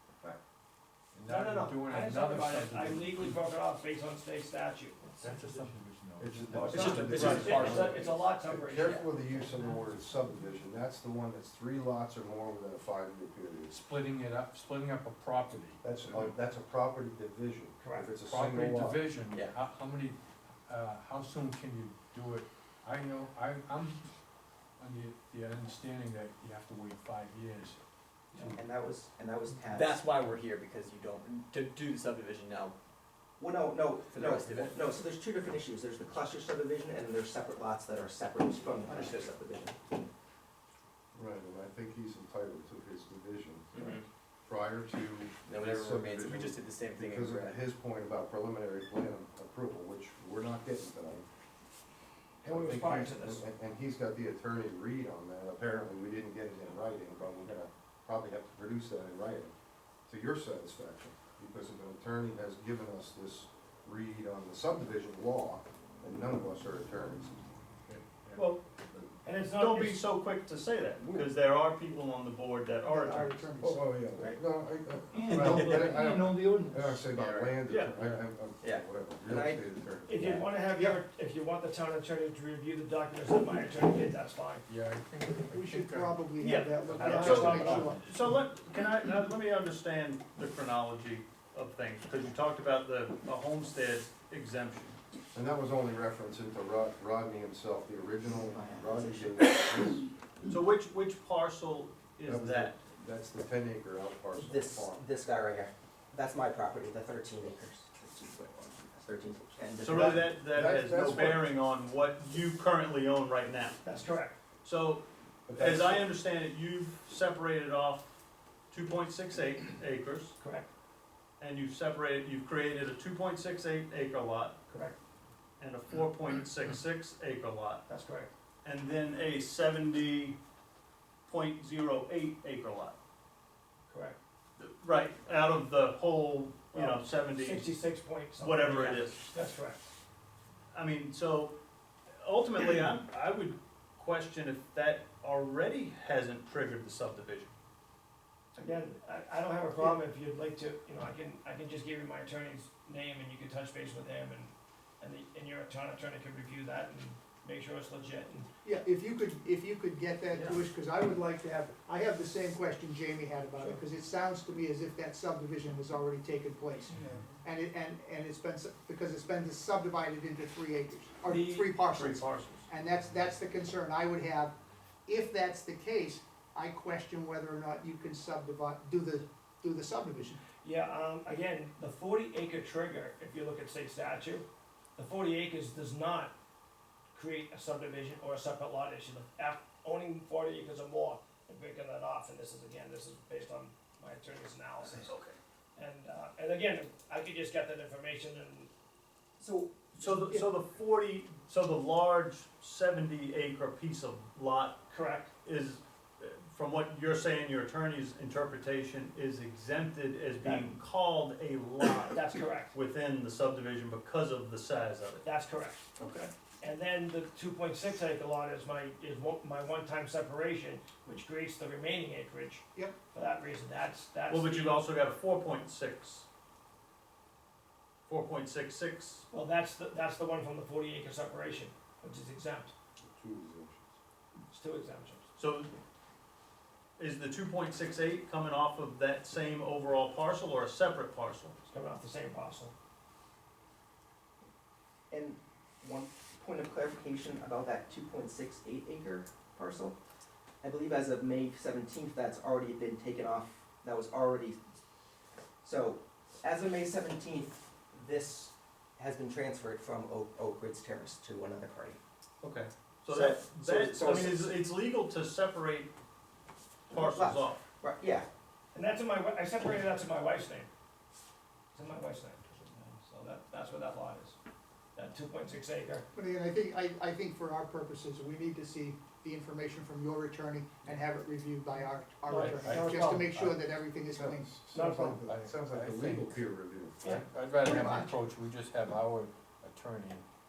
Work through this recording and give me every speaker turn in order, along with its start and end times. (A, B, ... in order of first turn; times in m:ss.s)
0:01.1-0:03.4 A
0:01.2-0:05.0 B
0:05.2-0:06.7 A
0:06.2-0:13.7 C
0:06.5-0:09.0 B
0:06.6-0:08.2 D
0:13.7-0:16.0 A
0:15.8-0:19.0 C
0:17.8-0:18.1 B
0:18.2-0:24.0 A
0:24.8-0:27.8 A
0:28.5-0:30.0 E
0:29.6-0:32.8 D
0:33.4-0:39.8 E
0:34.0-0:34.9 D
0:38.8-0:39.2 D
0:41.1-0:51.2 C
0:43.8-0:44.0 D
0:45.5-0:47.6 D
0:52.4-0:53.4 B
0:52.4-0:59.5 C
1:00.1-1:07.4 C
1:07.9-1:08.5 A
1:08.4-1:08.6 F
1:09.2-1:10.0 B
1:09.5-1:13.5 F
1:13.2-1:13.9 G
1:13.6-1:20.3 C
1:15.2-1:15.9 B
1:15.2-1:17.0 G
1:15.5-1:16.2 D
1:17.6-1:18.1 F
1:18.6-1:19.6 E
1:20.0-1:24.7 B
1:24.7-1:26.2 A
1:26.4-1:35.0 F
1:26.7-1:28.0 G
1:26.9-1:28.1 A
1:27.2-1:27.9 B
1:35.3-1:40.1 C
1:38.4-1:39.3 E
1:40.5-1:42.8 F
1:42.2-1:45.0 C
1:44.4-1:50.2 E
1:49.8-1:53.8 F
1:49.9-1:51.5 C
1:53.8-1:54.4 B
1:54.6-1:58.2 F
1:55.5-1:56.0 C
1:58.7-2:00.4 F
2:00.4-2:00.7 B
2:01.4-2:04.6 F
2:04.7-2:05.0 B
2:05.6-2:07.8 F
2:07.9-2:08.3 B
2:08.6-2:10.4 F
2:11.3-2:13.0 F
2:13.9-2:14.2 B
2:14.6-2:17.7 F
2:16.7-2:19.8 B
2:18.4-2:19.3 F
2:20.7-2:21.5 F
2:22.1-2:27.5 F
2:28.6-2:38.5 B
2:38.6-2:40.4 G
2:40.3-2:40.6 B
2:41.2-2:42.1 G
2:43.5-2:45.9 G
2:43.6-2:43.8 B
2:47.5-2:49.5 G
2:50.0-2:50.3 G
2:51.2-2:51.5 G
2:51.2-2:51.9 B
2:51.8-2:52.7 F
2:53.1-2:54.5 G
3:00.5-3:06.3 B
3:07.1-3:15.1 B
3:14.9-3:15.4 F
3:15.8-3:18.7 B
3:19.4-3:20.5 G
3:20.0-3:24.8 F
3:24.9-3:25.3 B
3:25.4-3:35.2 F
3:30.4-3:30.8 B
3:32.1-3:32.8 B
3:35.2-3:35.8 B
3:36.0-3:36.3 D
3:36.6-3:44.9 B
3:44.3-3:46.3 F
3:48.1-3:49.2 F
3:49.3-3:52.7 B
3:53.0-3:53.9 C
3:54.5-3:55.2 B
3:55.4-3:55.7 F
3:57.0-4:01.5 F
4:01.7-4:02.7 B
4:05.1-4:10.0 E
4:10.6-4:14.6 E
4:15.6-4:22.0 E
4:22.4-4:25.9 F
4:23.2-4:24.5 E
4:26.9-4:27.7 F
4:26.9-4:28.3 E
4:28.7-4:30.7 B
4:31.7-4:34.4 B
4:35.0-4:36.0 B
4:36.2-4:39.9 G
4:40.5-4:41.7 G
4:41.8-4:43.4 B
4:42.3-4:45.1 G
4:42.3-4:43.6 A
4:44.1-4:47.2 C
4:44.7-4:45.2 B
4:45.2-4:46.4 A
4:47.0-4:50.2 A